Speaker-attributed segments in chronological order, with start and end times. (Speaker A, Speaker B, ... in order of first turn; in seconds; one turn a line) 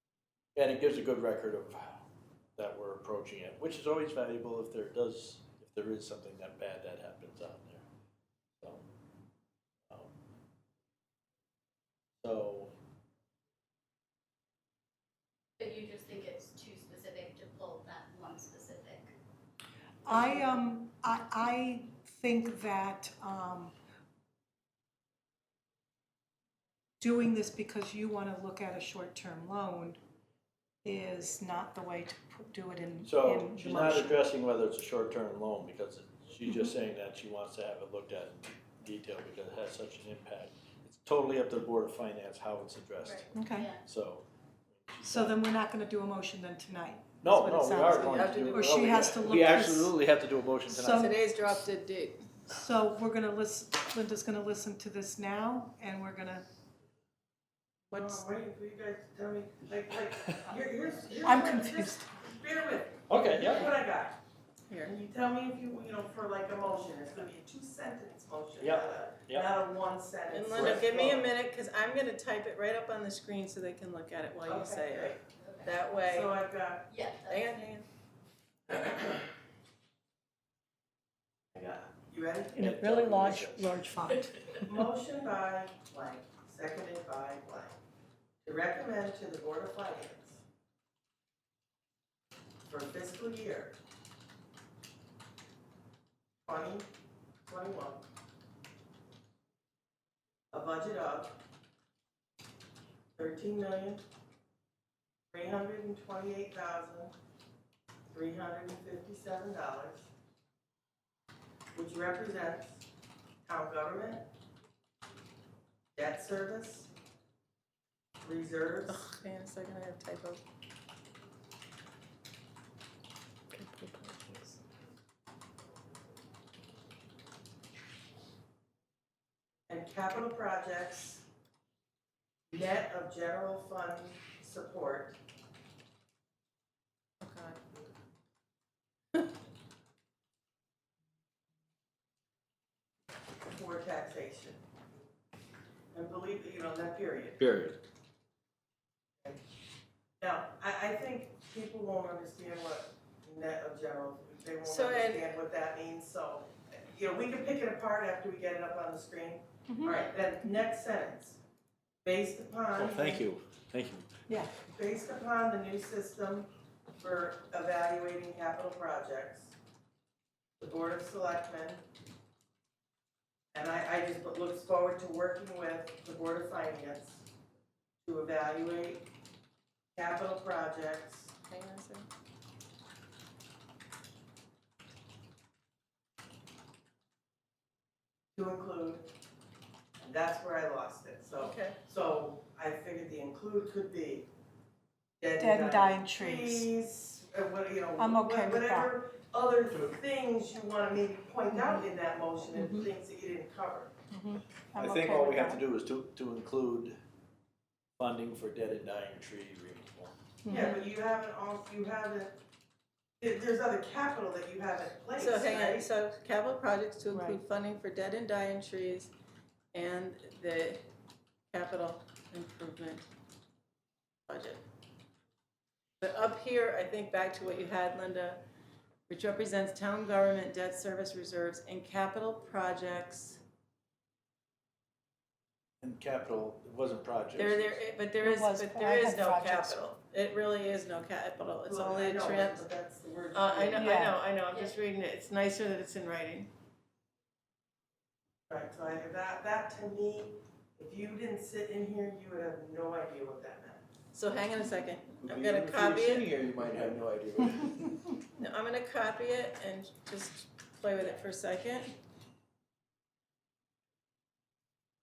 Speaker A: 0.6-2.0
Speaker A: 2.6-7.8
Speaker A: 8.6-8.8
Speaker A: 12.2-12.7
Speaker B: 15.6-19.1
Speaker C: 15.6-16.1
Speaker C: 20.1-23.7
Speaker C: 27.0-30.0
Speaker C: 30.8-34.2
Speaker A: 33.0-45.4
Speaker C: 43.3-43.8
Speaker C: 45.0-50.0
Speaker A: 47.2-51.2
Speaker D: 47.9-49.1
Speaker C: 50.7-51.2
Speaker D: 50.8-52.3
Speaker C: 52.5-56.5
Speaker D: 57.9-58.2
Speaker E: 57.9-64.2
Speaker C: 61.2-62.1
Speaker A: 63.1-63.8
Speaker E: 64.8-71.3
Speaker A: 68.6-69.5
Speaker D: 70.3-76.3
Speaker A: 70.5-70.8
Speaker E: 74.5-75.2
Speaker E: 76.0-77.0
Speaker C: 76.9-77.4
Speaker D: 77.3-77.9
Speaker A: 81.5-81.9
Speaker E: 82.1-82.6
Speaker A: 82.5-84.0
Speaker C: 82.6-84.5
Speaker E: 84.6-87.8
Speaker E: 88.5-90.4
Speaker E: 92.7-93.8
Speaker E: 96.5-96.9
Speaker E: 97.5-98.1
Speaker E: 100.5-101.4
Speaker E: 103.2-104.0
Speaker E: 105.3-107.1
Speaker E: 108.1-110.1
Speaker E: 111.7-112.8
Speaker E: 113.5-114.3
Speaker E: 116.0-116.9
Speaker E: 118.2-119.0
Speaker D: 118.9-120.4
Speaker D: 123.5-124.6
Speaker E: 129.7-131.2
Speaker E: 132.5-135.2
Speaker D: 137.2-137.6
Speaker E: 143.5-144.6
Speaker E: 145.9-147.4
Speaker A: 147.4-147.8
Speaker E: 150.2-161.4
Speaker D: 154.6-155.2
Speaker C: 159.7-160.0
Speaker E: 162.0-163.2
Speaker A: 162.8-164.1
Speaker C: 164.3-164.6
Speaker E: 164.6-166.5
Speaker E: 167.0-169.6
Speaker E: 170.6-171.8
Speaker E: 173.5-177.2
Speaker E: 178.1-179.1
Speaker E: 180.0-181.3
Speaker D: 181.5-182.1
Speaker E: 188.4-189.1
Speaker E: 190.0-194.3
Speaker D: 191.4-191.8
Speaker E: 195.2-203.9
Speaker C: 195.4-196.7
Speaker C: 198.0-198.9
Speaker C: 201.5-201.8
Speaker C: 202.6-202.9
Speaker C: 204.1-205.6
Speaker A: 204.8-207.0
Speaker A: 208.0-210.1
Speaker C: 210.4-210.7
Speaker E: 210.5-212.4
Speaker D: 210.5-210.8
Speaker E: 213.2-215.9
Speaker D: 215.2-219.1
Speaker C: 217.1-217.4
Speaker D: 219.7-220.8
Speaker D: 221.5-223.1
Speaker D: 224.3-224.6
Speaker D: 226.0-228.4
Speaker D: 229.1-233.4
Speaker A: 235.8-237.8
Speaker D: 237.4-242.7
Speaker C: 238.2-239.9
Speaker E: 241.7-243.9
Speaker D: 243.3-246.5
Speaker C: 243.7-244.2
Speaker E: 248.5-253.8
Speaker D: 254.1-256.3
Speaker A: 255.2-257.8
Speaker D: 258.4-261.9